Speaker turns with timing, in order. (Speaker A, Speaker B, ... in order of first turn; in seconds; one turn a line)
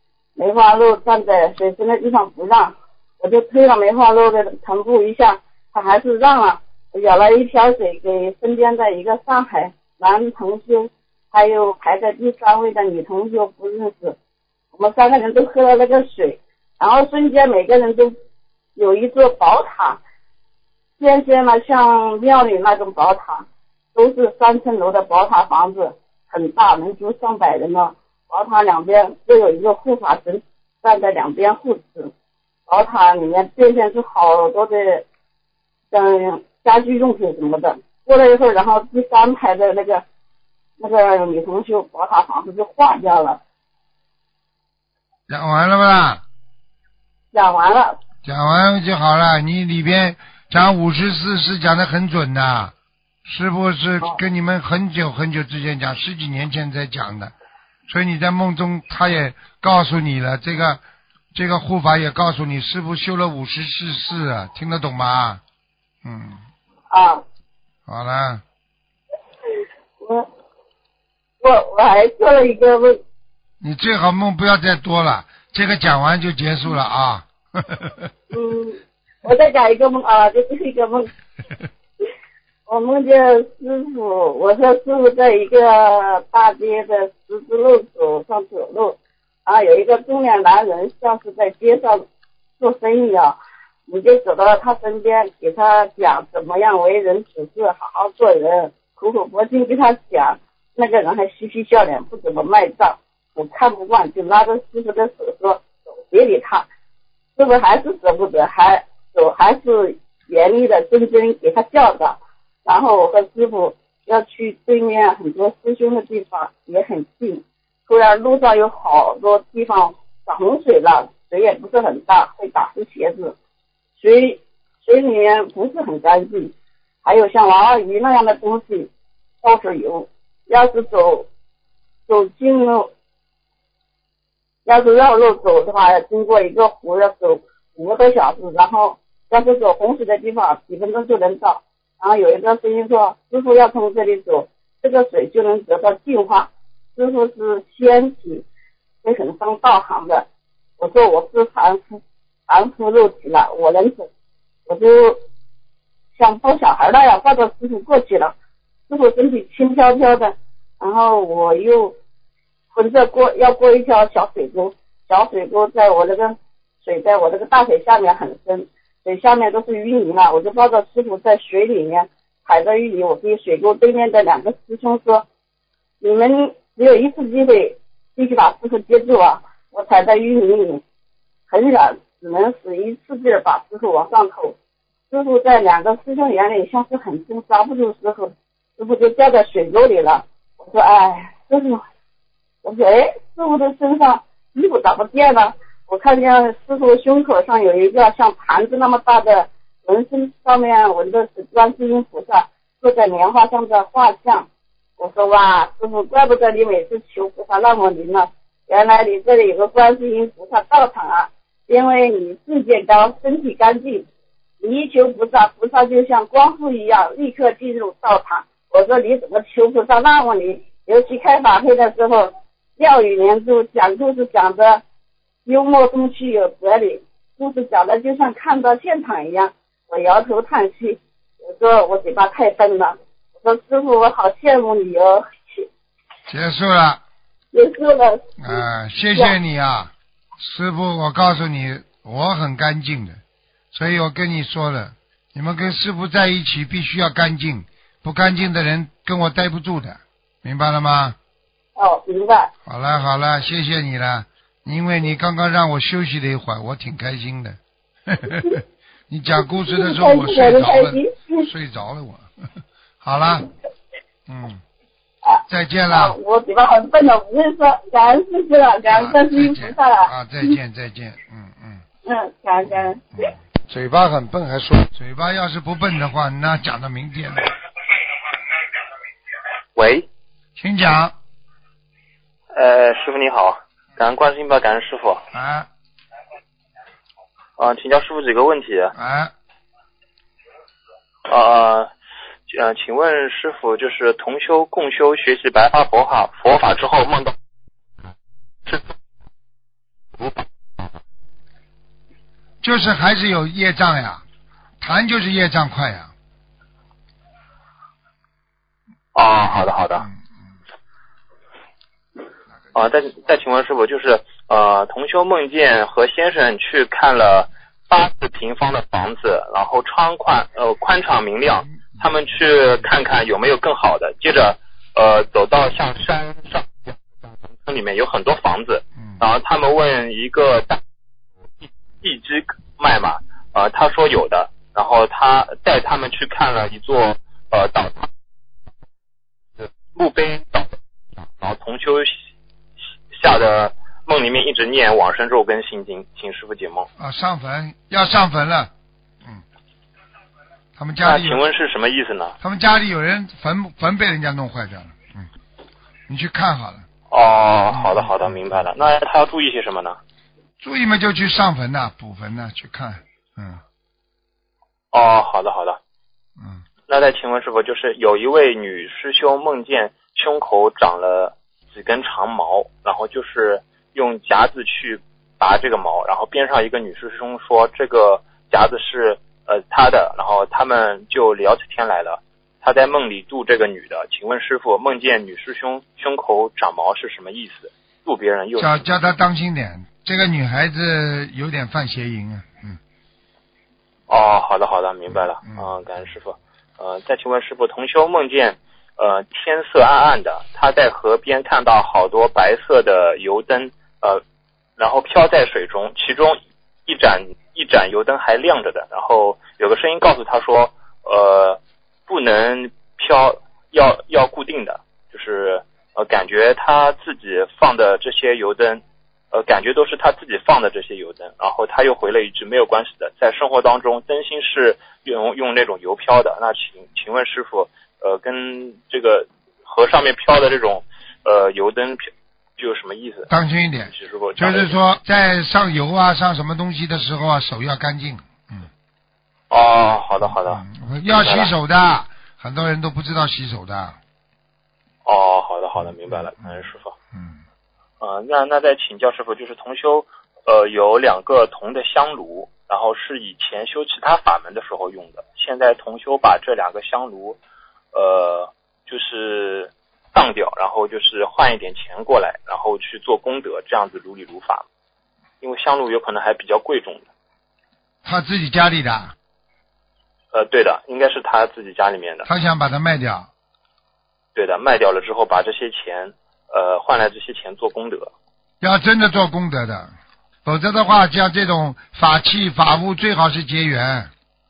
Speaker A: 0.4-14.2
Speaker A: 14.7-18.1
Speaker A: 18.8-20.0
Speaker A: 21.0-32.1
Speaker A: 32.7-35.1
Speaker A: 35.9-40.0
Speaker A: 40.8-43.4
Speaker B: 45.3-46.2
Speaker A: 47.3-48.0
Speaker B: 48.2-52.7
Speaker B: 53.2-57.3
Speaker B: 57.9-60.8
Speaker B: 61.3-65.4
Speaker B: 66.0-66.4
Speaker A: 66.9-67.2
Speaker B: 67.9-68.4
Speaker A: 70.0-70.3
Speaker A: 71.4-73.0
Speaker B: 73.6-78.1
Speaker A: 78.3-81.1
Speaker A: 82.7-92.0
Speaker A: 92.6-93.4
Speaker A: 93.9-106.7
Speaker A: 107.4-123.3
Speaker A: 124.0-128.9
Speaker A: 129.4-131.3
Speaker A: 132.1-132.9
Speaker A: 134.7-148.4
Speaker A: 149.0-150.3
Speaker A: 150.8-154.1
Speaker A: 154.7-155.2
Speaker A: 156.2-158.3
Speaker A: 158.9-162.0
Speaker A: 162.7-175.3
Speaker A: 176.0-180.8
Speaker A: 181.5-184.6
Speaker A: 185.1-191.8
Speaker A: 192.6-204.5
Speaker A: 205.0-214.1
Speaker A: 214.6-224.8
Speaker A: 225.4-235.7
Speaker B: 236.3-237.0
Speaker A: 237.5-238.6
Speaker B: 238.4-243.2
Speaker B: 243.7-251.2
Speaker A: 251.8-252.5
Speaker B: 252.7-262.3
Speaker A: 259.5-261.5
Speaker B: 263.0-263.5
Speaker B: 264.3-264.6
Speaker A: 265.2-270.6
Speaker B: 265.5-266.2
Speaker B: 268.9-271.8
Speaker A: 272.1-273.1
Speaker B: 272.7-277.5
Speaker C: 279.8-280.1
Speaker B: 280.6-281.1
Speaker C: 282.5-285.2
Speaker B: 285.3-285.7
Speaker C: 287.6-288.9
Speaker B: 288.9-289.3
Speaker C: 291.3-291.9
Speaker C: 292.5-297.4
Speaker C: 298.6-298.9
Speaker C: 300.1-300.4
Speaker B: 302.6-304.2
Speaker B: 304.8-306.1
Speaker C: 309.1-310.1
Speaker C: 312.7-330.8
Speaker B: 321.8-322.0
Speaker C: 331.6-338.1
Speaker C: 339.6-342.1
Speaker C: 343.1-346.9
Speaker B: 347.0-348.7
Speaker B: 350.8-351.4
Speaker C: 351.0-352.4
Speaker B: 352.4-355.3
Speaker B: 356.1-356.9
Speaker C: 357.1-360.0
Speaker B: 357.7-358.6
Speaker B: 360.6-363.6
Speaker C: 364.9-365.8
Speaker B: 366.4-366.7
Speaker C: 366.9-389.0
Speaker B: 388.6-392.8
Speaker C: 394.1-404.2
Speaker B: 395.4-395.8
Speaker C: 404.8-433.3
Speaker B: 433.3-438.7
Speaker C: 433.9-434.7
Speaker C: 439.5-440.6
Speaker B: 440.3-444.0
Speaker C: 441.1-441.5
Speaker C: 445.1-446.9
Speaker B: 445.8-447.4
Speaker C: 448.0-457.4
Speaker C: 457.9-464.6
Speaker C: 465.4-467.1
Speaker B: 468.0-469.1
Speaker C: 470.3-472.3
Speaker B: 472.3-473.3
Speaker C: 474.4-478.1
Speaker B: 478.6-479.9
Speaker B: 480.4-484.1